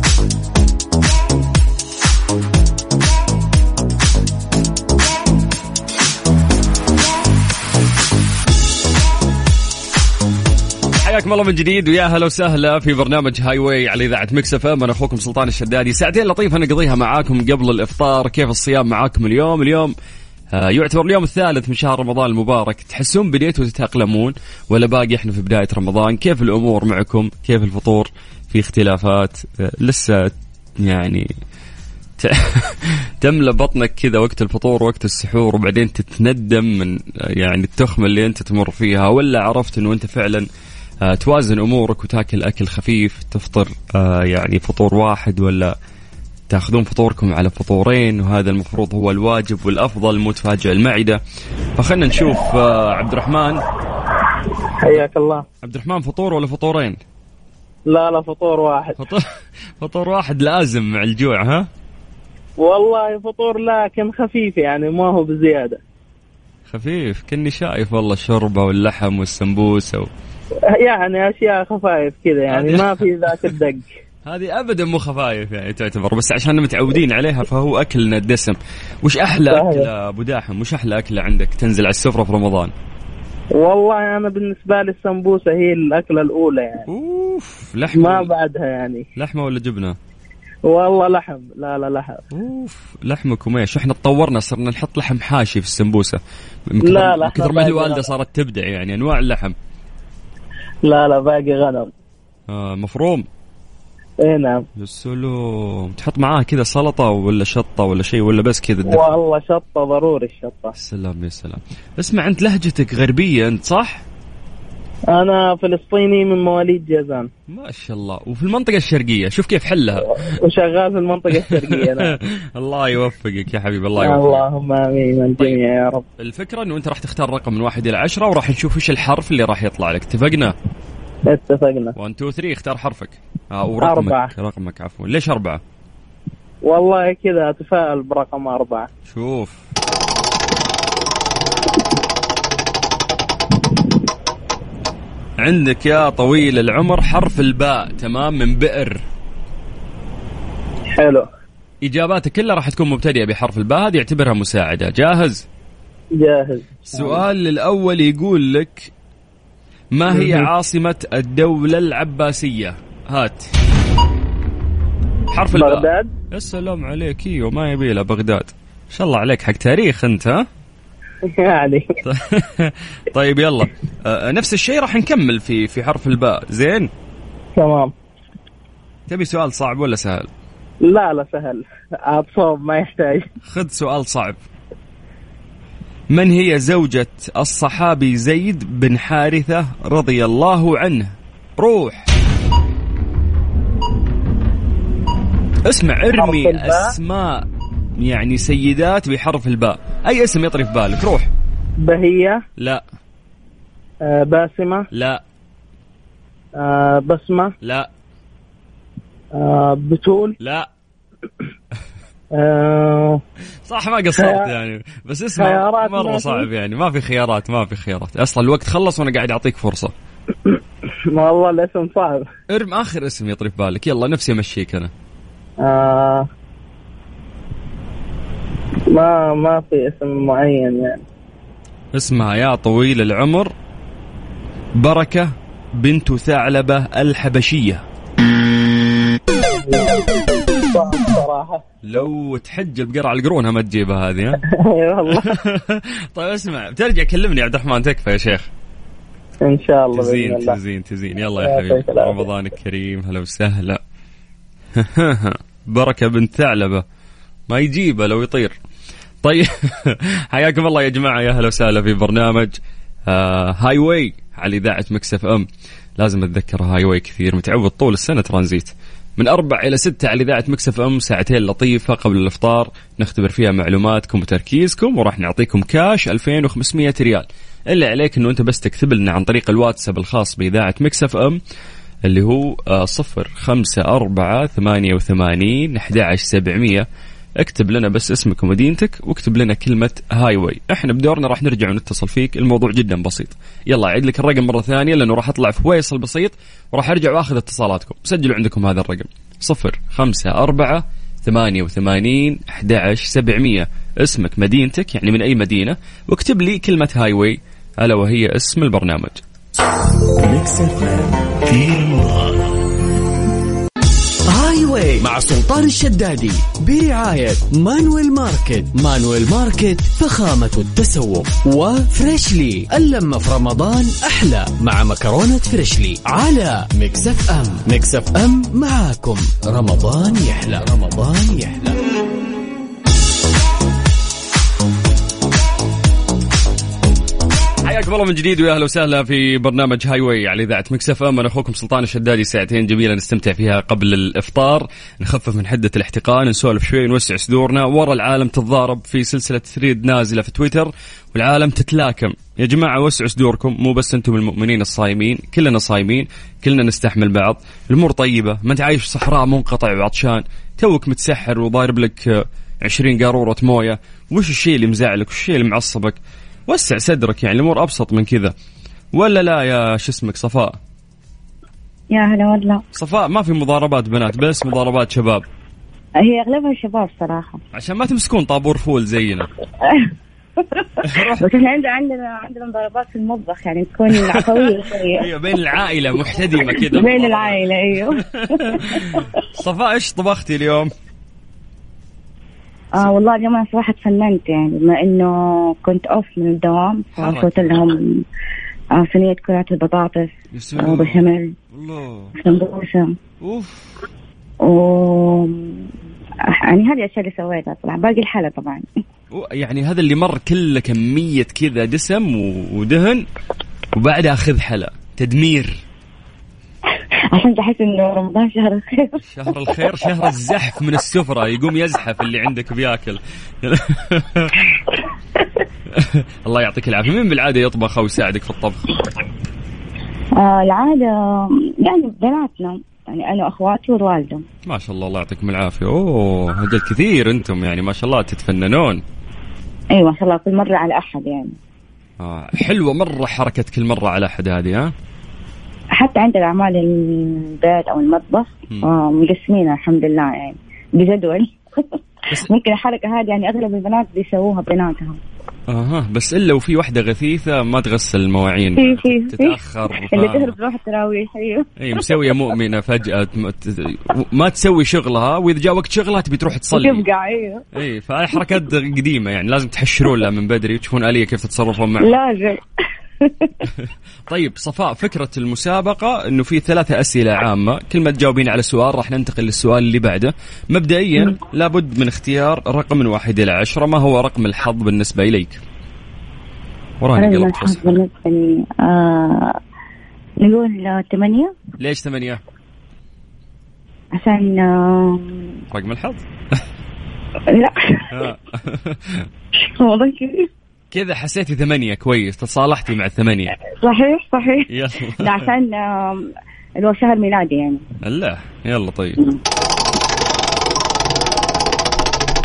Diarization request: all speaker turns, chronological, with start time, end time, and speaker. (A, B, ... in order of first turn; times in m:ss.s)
0:11.0-0:19.9 A
0:20.5-0:31.3 A
0:32.2-0:40.5 A
0:41.0-0:45.7 A
0:46.5-0:51.2 A
0:51.8-0:53.6 A
0:54.8-0:55.4 B
0:55.6-0:57.0 A
0:57.9-0:59.0 B
0:59.0-1:01.7 A
1:02.6-1:05.8 B
1:06.7-1:10.1 A
1:10.7-1:13.9 B
1:12.5-1:13.0 A
1:14.2-1:22.7 A
1:19.4-1:19.9 B
1:23.6-1:26.9 B
1:26.9-1:28.3 A
1:27.9-1:29.0 B
1:29.2-1:30.0 A
1:30.6-1:32.2 B
1:32.3-1:39.6 A
1:36.8-1:38.1 B
1:40.8-1:41.9 B
1:42.5-1:43.2 A
1:44.2-1:44.6 B
1:44.8-1:49.0 A
1:48.8-1:50.7 B
1:50.8-1:54.0 A
1:55.1-1:57.3 B
1:57.5-2:00.2 A
2:00.2-2:02.2 B
2:01.5-2:04.4 A
2:04.0-2:06.0 B
2:06.2-2:10.5 A
2:11.3-2:11.9 B
2:12.0-2:15.6 A
2:13.8-2:14.3 B
2:16.6-2:18.9 B
2:19.1-2:19.6 A
2:25.4-2:29.0 A
2:30.9-2:31.3 B
2:31.8-2:35.4 A
2:36.2-2:37.2 B
2:36.9-2:38.9 A
2:39.9-2:43.5 A
2:40.1-2:40.5 B
2:45.3-2:50.4 A
2:45.5-2:46.1 B
2:51.2-2:51.9 B
2:52.0-2:56.9 A
2:57.6-2:57.9 B
2:59.1-3:00.3 A
3:00.8-3:03.3 B
3:03.5-3:04.4 A
3:06.1-3:12.1 A
3:15.6-3:17.4 A
3:16.1-3:16.9 B
3:18.0-3:21.3 A
3:21.8-3:22.4 B
3:22.6-3:22.8 A
3:24.0-3:24.9 B
3:24.9-3:25.2 A
3:26.6-3:27.5 B
3:27.6-3:27.9 A
3:29.3-3:30.4 B
3:30.4-3:30.7 A
3:32.3-3:33.2 B
3:33.7-3:39.9 A
3:34.2-3:34.5 B
3:35.4-3:36.5 B
3:41.1-3:42.2 B
3:42.5-3:44.9 A
3:45.6-3:46.2 B
3:48.9-3:51.0 B
3:51.9-3:53.5 A
3:54.8-3:57.8 A
3:59.6-4:01.6 B
4:01.8-4:04.4 A
4:04.5-4:05.4 B
4:05.1-4:08.5 A
4:09.4-4:10.6 B
4:09.9-4:13.8 A
4:11.4-4:12.2 B
4:14.8-4:16.8 A
4:17.5-4:18.5 A
4:19.2-4:25.5 A
4:26.0-4:41.4 A
4:42.0-4:46.8 A
4:47.4-5:09.2 A
5:10.2-5:12.5 C
5:14.3-5:31.8 C
5:37.6-6:08.3 A
6:08.9-6:10.6 A
6:11.9-6:12.6 D
6:12.7-6:15.2 A
6:16.0-6:17.4 D
6:17.5-6:19.3 A
6:19.6-6:25.1 D
6:20.8-6:21.2 A
6:23.9-6:30.7 A
6:26.5-6:29.1 D
6:32.7-6:38.0 D
6:36.9-6:37.5 A
6:38.7-6:41.3 D
6:40.3-6:42.1 A
6:42.2-6:43.0 D
6:43.2-6:43.7 A
6:44.4-6:45.7 D
6:46.3-6:48.7 D
6:49.1-6:53.0 A
6:53.7-6:55.6 A
6:57.1-6:59.0 D
6:59.0-7:04.6 A
7:05.7-7:08.7 A
7:10.2-7:14.2 D
7:14.4-7:18.8 A
7:19.7-7:21.4 D
7:22.0-7:24.7 A
7:25.7-7:35.0 D
7:35.5-7:40.3 A
7:38.6-7:41.5 D
7:41.6-7:46.8 A
7:46.5-7:47.4 D
7:47.5-7:52.0 A
7:51.8-7:52.4 D
7:53.0-7:53.5 D
7:53.6-8:05.4 A
8:06.8-8:07.8 A
8:07.0-8:09.4 D
8:10.2-8:11.3 D
8:11.6-8:12.2 A
8:13.9-8:15.4 D
8:15.5-8:16.4 A
8:17.3-8:18.0 D
8:17.9-8:19.0 A
8:19.4-8:20.3 D
8:20.7-8:23.3 A
8:23.6-8:24.5 D
8:24.5-8:25.3 A
8:25.0-8:27.6 D
8:27.8-8:29.0 A